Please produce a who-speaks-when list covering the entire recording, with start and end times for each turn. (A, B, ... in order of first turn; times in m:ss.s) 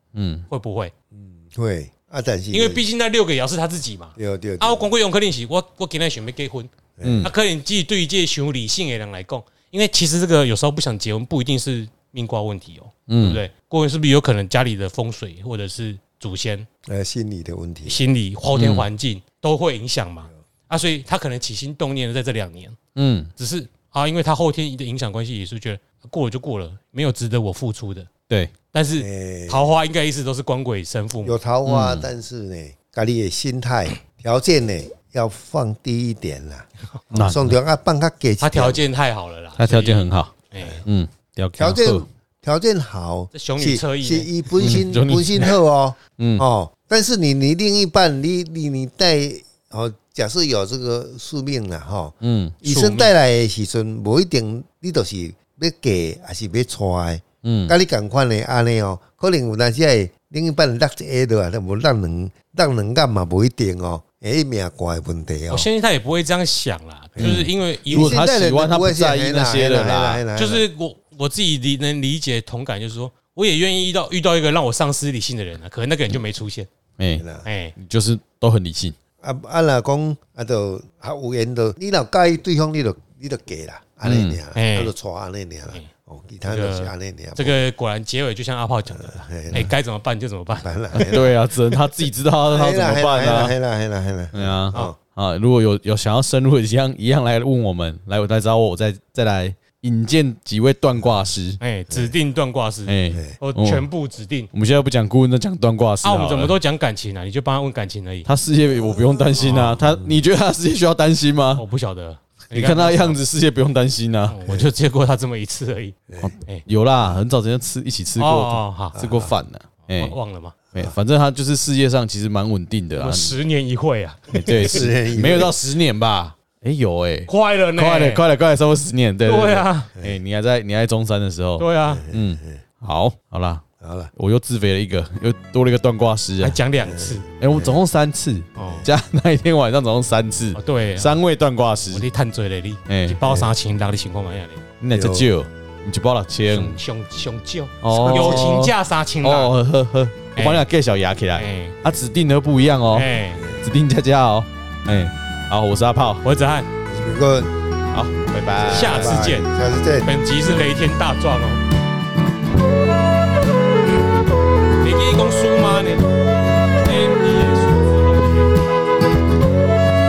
0:00.1-0:00.5 A
0:00.5-0:00.9 B
0:01.1-0:02.8 C
0:02.5-0:06.7 B
0:04.2-0:04.9 C
0:07.0-0:07.3 C
0:07.0-0:07.3 A
0:07.2-0:16.7 B
0:13.1-0:13.4 A
0:16.9-0:18.0 C
0:17.9-0:22.8 B
0:18.6-0:18.9 A
0:23.0-0:23.3 A
0:23.4-0:28.1 B
0:28.3-0:28.5 A
0:28.7-0:31.4 B
0:29.0-0:29.7 C
0:31.2-0:38.8 C
0:31.6-0:32.1 A
0:37.1-0:37.6 A
0:38.4-0:40.8 B
0:39.6-0:42.0 A
0:41.6-1:05.7 C
0:43.3-0:44.3 B
0:44.6-0:45.6 A
0:46.2-0:46.4 A
0:52.2-0:52.6 A
0:52.6-0:53.1 B
0:57.4-0:57.7 A
1:05.5-1:08.2 B
1:07.2-1:10.6 C
1:07.2-1:10.2 A
1:10.4-1:16.7 B
1:17.0-1:17.2 A
1:17.2-1:17.5 C
1:17.4-1:17.7 B
1:17.8-1:19.0 A
1:19.2-1:27.6 C
1:24.0-1:24.4 A
1:24.6-1:24.9 B
1:26.5-1:31.0 B
1:28.9-1:29.7 C
1:30.6-1:31.9 C
1:31.0-1:33.5 A
1:32.4-1:35.0 C
1:34.3-1:41.6 A
1:41.6-1:44.5 B
1:42.9-1:43.9 A
1:43.1-1:43.4 C
1:44.5-1:46.6 A
1:46.0-1:48.3 B
1:48.3-1:51.6 A
1:49.4-1:49.8 B
1:49.8-1:50.2 C
1:51.6-1:53.2 B
1:52.5-1:54.4 A
1:54.3-1:56.6 B
1:56.2-2:00.2 A
1:58.2-1:59.0 B
1:58.9-1:59.3 C
1:59.9-2:00.6 B
2:00.8-2:03.4 A
2:03.0-2:05.7 B
2:04.3-2:16.6 A
2:04.5-2:05.6 C
2:07.3-2:08.2 B
2:09.3-2:09.9 B
2:11.6-2:12.0 B
2:11.9-2:12.6 C
2:13.8-2:14.1 C
2:16.4-2:17.3 B
2:16.8-2:17.8 C
2:17.4-2:22.1 A
2:18.6-2:18.9 B
2:18.6-2:18.9 C
2:20.6-2:21.2 B
2:21.9-2:24.6 B
2:22.9-2:23.2 A
2:23.3-2:23.5 C
2:24.8-2:26.8 A
2:24.9-2:25.3 C
2:26.5-2:29.5 B
2:27.8-2:36.2 A
2:27.9-2:28.6 C
2:30.4-2:30.6 B
2:31.4-2:31.8 B
2:32.9-2:33.4 B
2:33.4-2:33.6 C
2:36.2-2:36.7 B
2:36.9-2:37.5 C
2:37.9-2:39.3 A
2:38.6-2:40.1 C
2:38.7-2:39.5 B
2:40.0-2:41.6 B
2:44.8-2:46.1 B
2:46.8-2:49.3 B